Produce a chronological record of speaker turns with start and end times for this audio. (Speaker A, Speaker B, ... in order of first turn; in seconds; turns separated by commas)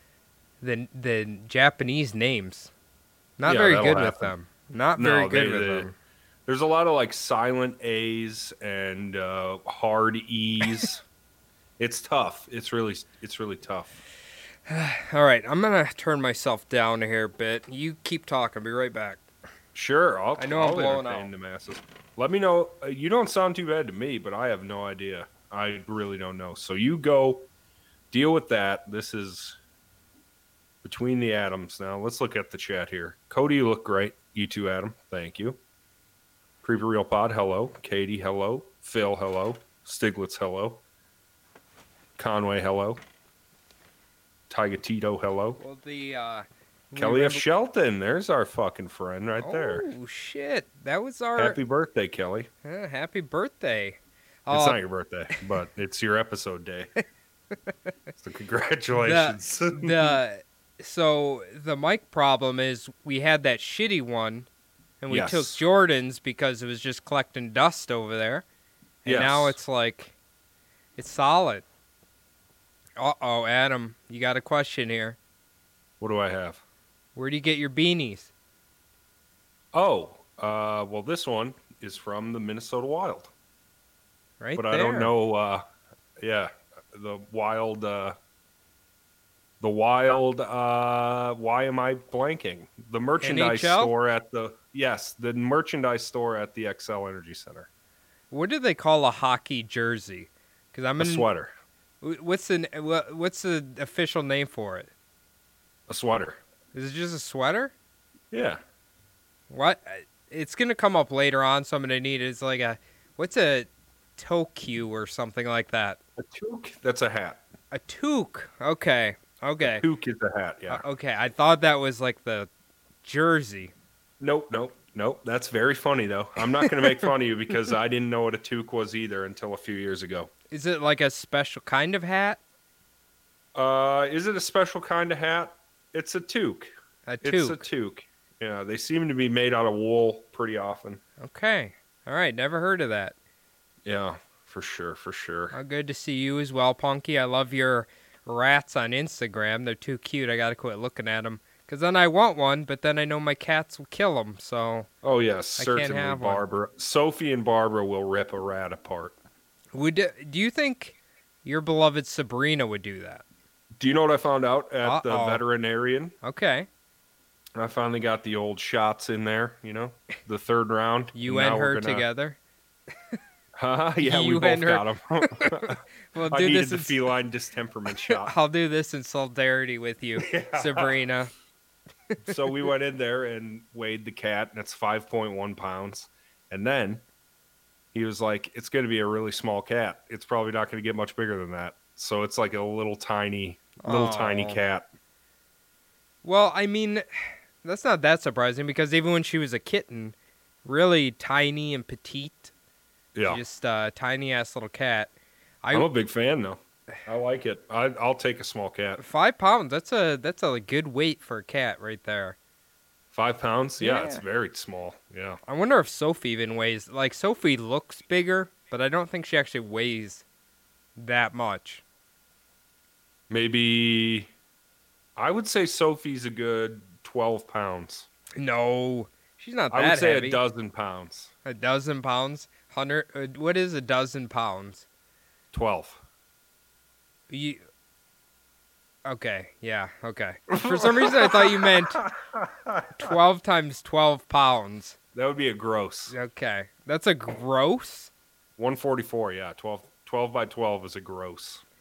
Speaker A: 0.6-2.7, Speaker A: 3.4-5.9, Speaker B: 3.5-4.3, Speaker B: 5.0-5.9, Speaker B: 6.5-11.0, Speaker B: 11.8-14.0, Speaker A: 14.7-19.2, Speaker B: 19.8-27.5, Speaker A: 20.4-21.3, Speaker B: 28.1-29.6, Speaker B: 30.8-35.6, Speaker B: 36.6-40.8, Speaker B: 42.2-43.0, Speaker B: 44.5-45.6, Speaker A: 45.6-47.4, Speaker B: 47.0-49.9, Speaker A: 49.4-51.6, Speaker B: 51.4-52.5, Speaker A: 52.6-54.8, Speaker B: 54.5-56.9, Speaker B: 58.2-60.2, Speaker A: 59.0-64.5, Speaker A: 65.0-68.4, Speaker B: 65.1-65.6, Speaker B: 69.0-69.6, Speaker A: 69.0-70.2, Speaker A: 71.0-71.7, Speaker A: 73.0-75.2, Speaker B: 76.0-76.6, Speaker A: 77.2-78.3, Speaker B: 79.7-83.3, Speaker A: 84.4-85.1, Speaker B: 84.6-85.6, Speaker B: 86.2-88.2, Speaker B: 89.6-97.7, Speaker A: 93.2-93.9, Speaker A: 98.3-101.3, Speaker B: 101.0-101.5, Speaker A: 102.0-104.9, Speaker B: 105.9-106.4, Speaker A: 106.7-107.7, Speaker B: 108.3-108.6, Speaker A: 109.5-116.0, Speaker B: 116.2-117.4, Speaker A: 117.7-119.8, Speaker B: 119.7-120.8, Speaker A: 120.7-122.5, Speaker A: 123.0-123.7, Speaker B: 124.2-130.3, Speaker A: 126.6-127.1, Speaker A: 130.5-132.4, Speaker B: 133.6-141.0, Speaker A: 137.1-137.7, Speaker A: 141.2-143.2, Speaker B: 143.8-145.6, Speaker A: 145.5-154.9, Speaker B: 155.0-159.2, Speaker A: 155.6-156.4, Speaker A: 159.7-163.2, Speaker B: 163.8-166.2, Speaker A: 164.8-165.4, Speaker A: 166.2-166.7, Speaker B: 167.6-172.1, Speaker A: 171.1-172.4, Speaker B: 173.6-178.3, Speaker A: 174.0-177.1, Speaker A: 178.0-181.3, Speaker B: 180.2-181.0, Speaker B: 182.2-187.0, Speaker B: 187.9-194.9, Speaker A: 193.8-194.6, Speaker A: 196.2-202.5, Speaker B: 203.2-203.4, Speaker A: 203.3-205.1, Speaker A: 205.6-205.9, Speaker B: 205.7-209.0, Speaker A: 209.0-212.4, Speaker B: 213.1-215.4, Speaker A: 213.8-214.2, Speaker A: 215.5-220.2, Speaker A: 221.0-221.8, Speaker B: 223.3-224.3, Speaker B: 225.2-228.1, Speaker A: 228.4-230.4, Speaker B: 229.7-231.3, Speaker A: 231.4-234.9, Speaker B: 235.5-236.0, Speaker A: 237.3-237.6, Speaker A: 239.1-242.1, Speaker B: 240.5-243.1, Speaker A: 243.0-245.0, Speaker B: 245.1-246.1, Speaker A: 246.1-248.1, Speaker B: 248.6-251.6